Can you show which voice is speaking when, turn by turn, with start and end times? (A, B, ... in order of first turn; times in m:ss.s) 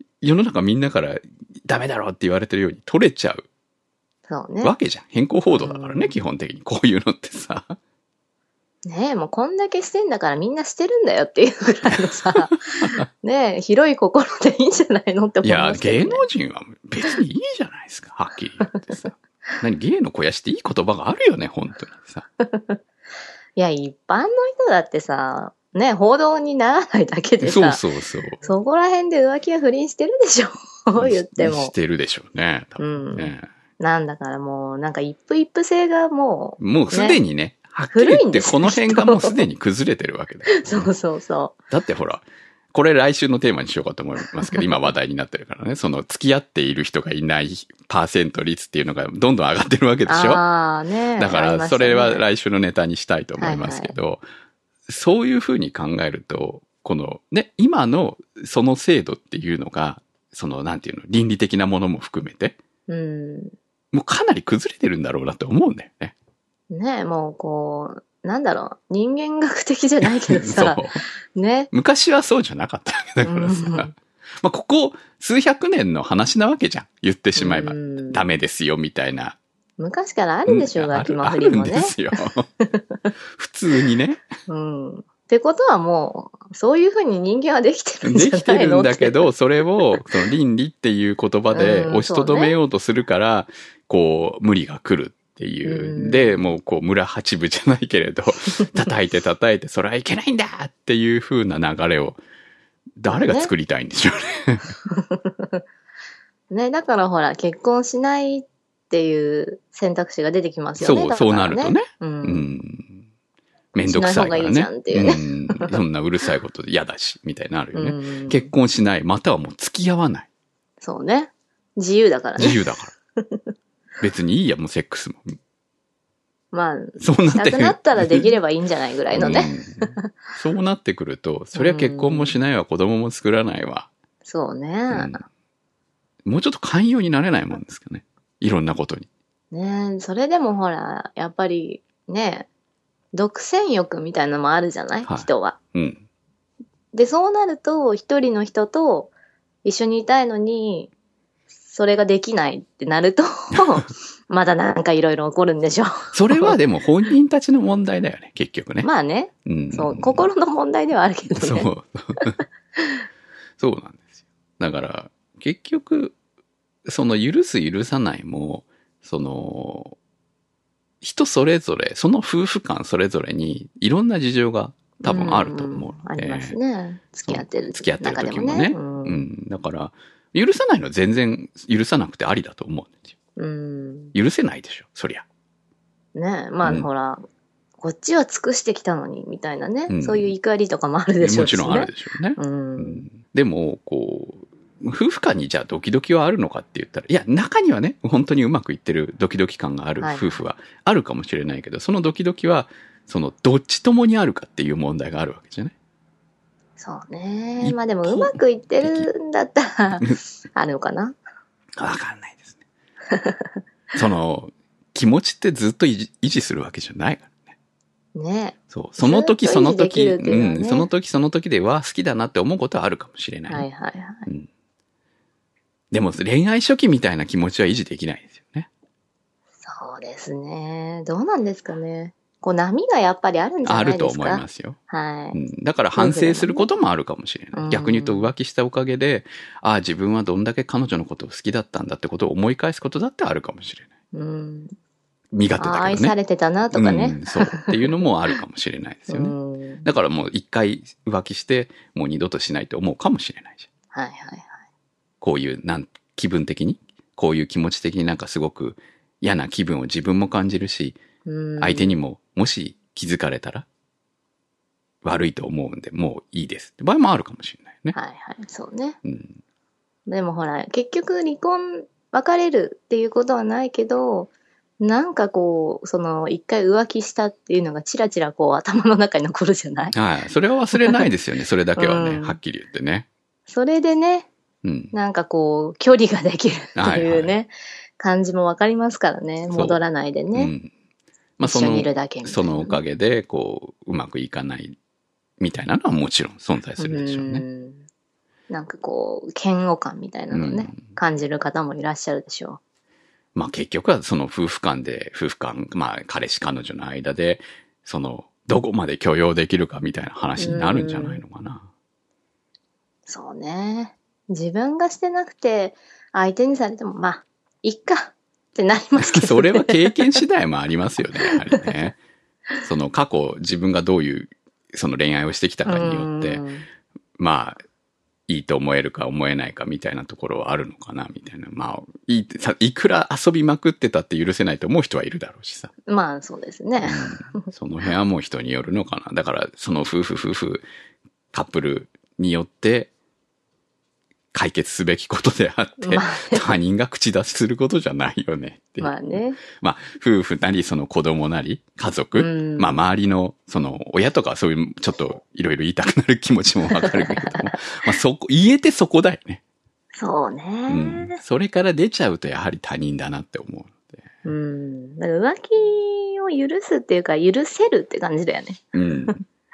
0:00.2-0:03.4 A
0:04.3-0:04.7 B
0:04.6-0:07.8 A
0:05.5-0:06.2 B
0:08.8-0:16.2 B
0:11.9-0:12.1 A
0:15.4-0:22.2 A
0:22.4-0:22.8 B
0:23.6-0:27.8 B
0:27.4-0:28.4 A
0:28.4-0:31.7 B
0:31.0-0:33.5 A
0:32.8-0:37.2 B
0:36.6-0:40.9 A
0:37.9-0:39.4 B
0:40.5-0:41.6 B
0:41.7-0:50.4 A
0:44.4-0:44.7 B
0:50.1-0:52.2 B
0:51.2-0:54.2 A
0:53.4-0:53.9 B
0:54.9-1:02.6 A
1:02.9-1:03.5 B
1:03.9-1:06.1 A
1:06.7-1:11.7 B
1:10.0-1:11.0 A
1:11.7-1:19.4 A
1:13.2-1:13.9 B
1:17.4-1:18.2 B
1:19.8-1:22.0 B
1:20.5-1:22.5 A
1:22.6-1:23.1 B
1:23.3-1:24.2 A
1:24.5-1:30.0 B
1:28.0-1:42.2 A
1:31.5-1:32.6 B
1:35.6-1:36.4 B
1:43.0-1:44.7 A
1:43.1-1:43.5 B
1:44.9-1:45.6 B
1:46.5-1:52.5 B
1:50.8-1:53.0 A
1:53.7-2:00.3 A
1:53.9-1:55.8 B
1:57.7-1:58.5 B
2:00.8-2:03.5 B
2:02.4-2:02.9 A
2:04.0-2:05.4 A
2:06.5-2:10.1 B
2:07.0-2:08.3 A
2:09.1-2:13.9 A
2:11.5-2:12.4 B
2:14.2-2:15.2 B
2:14.9-2:15.2 A
2:16.2-2:19.1 A
2:19.5-2:22.5 B
2:23.1-2:25.6 B
2:25.0-2:26.0 A
2:26.9-2:29.1 B
2:29.6-2:30.9 B
2:31.6-2:36.6 B
2:36.1-2:38.9 A
2:38.8-2:42.2 B
2:39.4-2:40.2 A
2:41.4-2:42.4 A
2:42.8-2:43.0 B
2:43.6-2:44.0 A
2:44.6-2:46.1 A
2:46.8-2:50.0 A
2:51.0-2:56.6 A
2:55.0-2:59.2 B
2:57.3-3:03.1 A
3:03.4-3:04.1 B
3:04.1-3:05.2 A
3:06.1-3:07.2 B
3:06.6-3:06.9 A
3:07.8-3:13.0 B
3:09.9-3:10.3 A
3:11.2-3:25.7 A
3:20.0-3:20.4 B
3:26.8-3:31.2 B
3:27.6-3:29.1 A
3:31.8-3:32.6 A
3:33.1-3:33.5 B
3:33.9-3:37.5 A
3:38.1-3:40.9 B
3:38.7-3:43.7 A
3:43.5-3:44.3 B
3:45.9-3:48.7 A
3:49.6-3:55.4 B
3:53.6-3:54.8 A
3:55.3-4:03.9 A
3:56.0-3:56.7 B
3:57.5-3:58.3 B
4:04.1-4:04.7 B
4:05.3-4:06.2 A
4:05.6-4:07.9 B
4:06.7-4:13.7 A
4:09.1-4:09.9 B
4:13.9-4:14.5 B
4:15.2-4:21.0 A
4:21.2-4:22.0 B
4:21.6-4:23.6 A
4:25.0-4:28.0 A
4:27.9-4:29.0 B
4:29.0-4:29.4 A
4:30.1-4:39.9 B
4:39.9-4:43.1 A
4:40.7-4:41.1 B
4:41.8-4:42.4 B
4:43.5-4:44.3 B
4:44.6-4:44.9 A
4:44.9-4:50.5 B
4:46.8-4:47.3 A
4:49.5-4:49.8 A
4:50.3-4:50.7 A
4:51.4-4:54.8 A
4:51.4-4:52.8 B
4:55.4-4:57.4 A
4:56.8-4:57.8 B
4:58.5-5:02.6 B
5:00.3-5:00.8 A
5:03.3-5:11.7 A
5:10.4-5:11.2 B
5:13.1-5:20.2 B
5:19.0-5:22.0 A
5:21.3-5:21.6 B
5:22.6-5:26.4 A
5:25.6-5:26.6 B
5:27.2-5:27.6 A
5:28.3-5:35.7 A
5:35.9-5:37.5 B
5:36.8-5:40.6 A
5:41.3-5:42.9 A
5:44.3-5:59.4 A
5:45.8-5:46.5 B
5:48.8-5:49.4 B
5:52.1-5:52.8 B
5:56.7-5:57.9 B
5:59.9-6:01.2 B
6:00.7-6:04.0 A
6:04.2-6:09.1 B
6:08.7-6:09.2 A